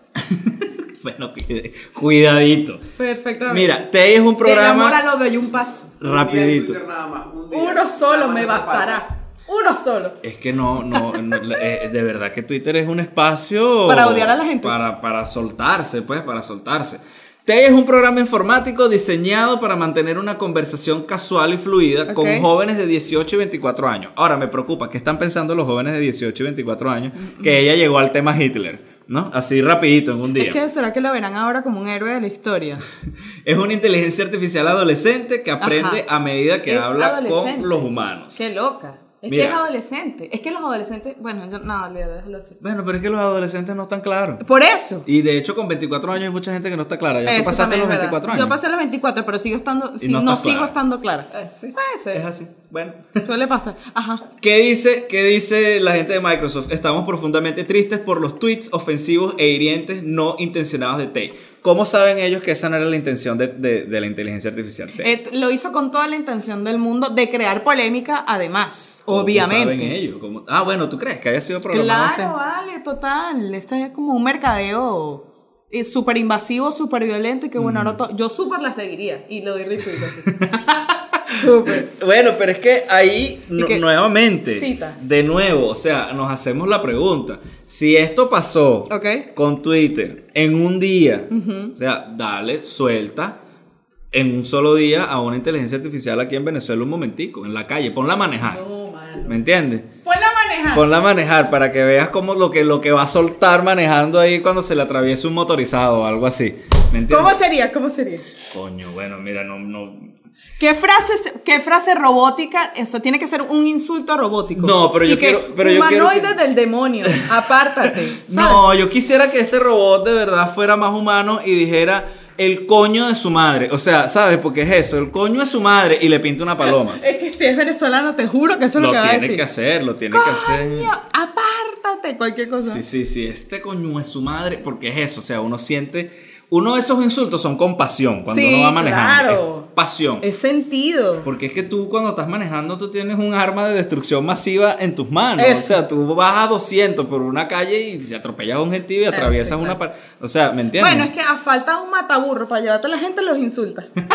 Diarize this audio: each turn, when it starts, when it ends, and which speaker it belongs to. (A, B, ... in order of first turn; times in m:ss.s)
0:00.2-0:02.8 A
0:03.0-0:03.8 B
0:03.5-0:05.0 A
0:04.4-0:05.9 B
0:06.0-0:06.8 A
0:06.0-0:09.0 C
0:07.5-0:10.2 B
0:10.2-0:30.6 A
0:10.9-0:11.6 B
0:13.8-0:14.7 B
0:22.1-0:22.5 B
0:27.2-0:27.5 B
0:30.4-0:32.8 B
0:33.4-0:38.4 A
0:35.6-0:36.0 B
0:36.7-0:37.8 B
0:38.3-0:42.6 B
0:39.3-0:39.6 A
0:42.6-0:44.4 A
0:44.4-0:45.0 B
0:45.0-0:48.6 A
0:47.2-0:52.2 B
0:50.0-0:50.7 A
0:52.1-0:53.2 A
0:53.2-0:54.2 B
0:54.4-1:05.1 A
1:05.0-1:09.9 B
1:09.1-1:12.3 A
1:11.7-1:20.3 B
1:17.6-1:18.0 A
1:20.2-1:33.4 A
1:21.2-1:21.9 B
1:23.6-1:23.8 B
1:24.5-1:25.0 B
1:28.9-1:29.2 B
1:31.3-1:31.7 B
1:34.1-1:38.6 A
1:38.4-1:39.3 B
1:39.2-1:39.9 A
1:40.0-1:40.9 B
1:40.7-1:47.4 A
1:47.1-1:48.2 B
1:48.5-1:50.1 A
1:50.6-1:58.6 B
1:54.6-1:56.3 A
1:57.8-2:07.0 A
2:06.6-2:09.4 B
2:08.8-2:10.9 A
2:10.1-2:12.8 B
2:12.6-2:20.2 A
2:18.3-2:19.7 B
2:20.2-2:21.3 B
2:21.2-2:31.1 A
2:25.4-2:25.8 B
2:29.1-2:29.8 B
2:30.8-2:33.9 B